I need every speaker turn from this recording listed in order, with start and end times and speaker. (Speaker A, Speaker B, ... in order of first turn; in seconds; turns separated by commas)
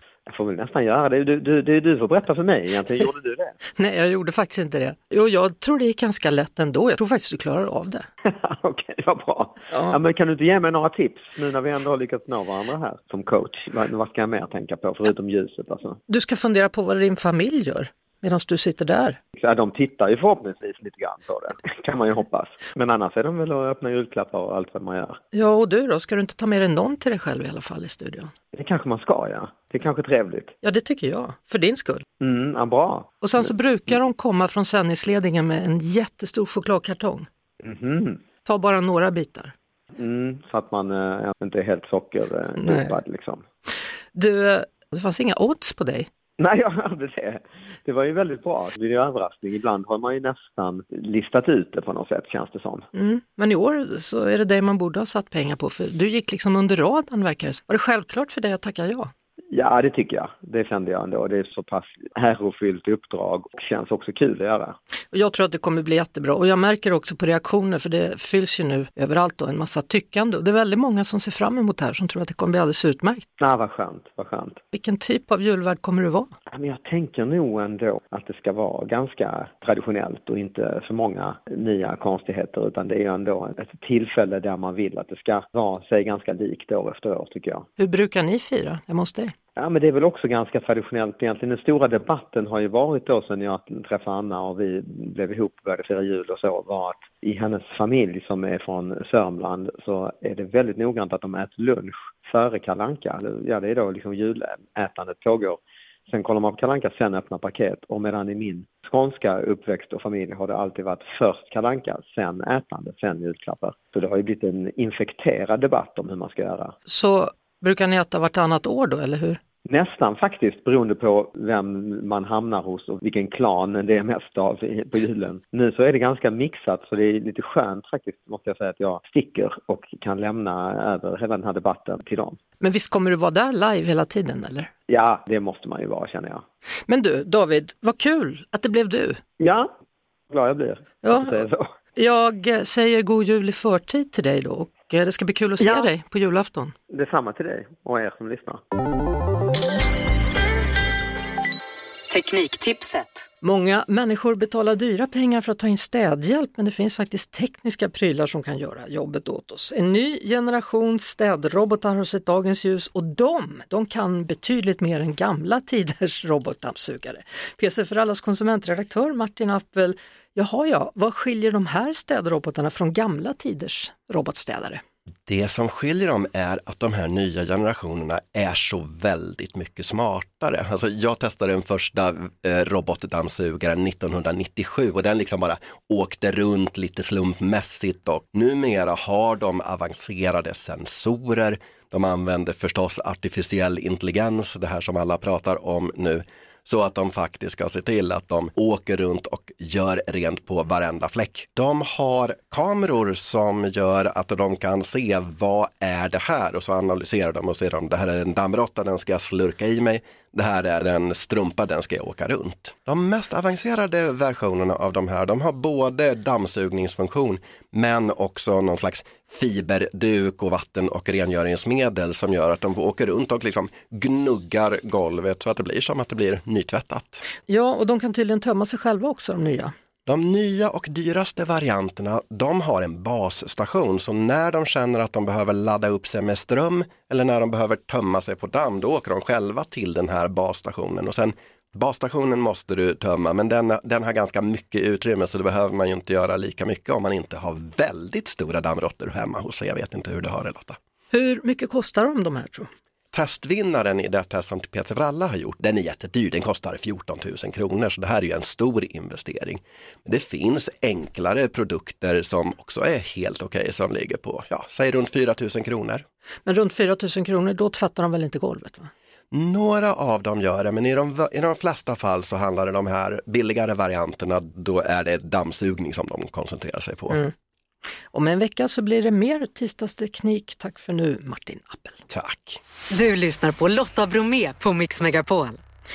Speaker A: 0.3-3.5, Speaker B: 3.8-8.1, Speaker A: 8.2-16.0, Speaker B: 9.7-10.0, Speaker B: 16.1-19.2, Speaker A: 19.4-25.2, Speaker B: 25.3-28.3, Speaker A: 28.5-30.5, Speaker B: 30.6-32.0, Speaker A: 32.2-33.1, Speaker B: 33.2-37.3, Speaker A: 37.6-38.2, Speaker B: 38.5-39.5, Speaker A: 40.0-43.4, Speaker B: 42.6-42.9, Speaker B: 44.1-46.1, Speaker A: 46.4-52.8, Speaker B: 52.9-59.1, Speaker A: 59.5-64.7, Speaker B: 65.1-73.2, Speaker A: 73.4-74.6, Speaker B: 74.7-76.3, Speaker A: 76.5-87.7, Speaker B: 87.8-89.3, Speaker A: 89.6-116.7, Speaker B: 116.9-119.4, Speaker A: 119.7-132.4, Speaker B: 132.6-134.7, Speaker A: 134.9-136.4, Speaker B: 136.9-139.2, Speaker A: 139.4-139.7, Speaker A: 140.3-141.7, Speaker B: 141.0-141.4, Speaker B: 142.0-146.7, Speaker A: 145.6-145.9, Speaker A: 146.9-148.6, Speaker C: 152.1-153.2, Speaker B: 153.4-174.8, Speaker D: 175.3-227.2, Speaker B: 227.5-229.7, Speaker D: 230.1-250.8, Speaker B: 251.1-252.7, Speaker D: 253.1-266.0, Speaker B: 266.5-268.9, Speaker D: 269.3-277.2, Speaker B: 278.1-282.0, Speaker D: 282.1-282.6, Speaker C: 282.9-285.6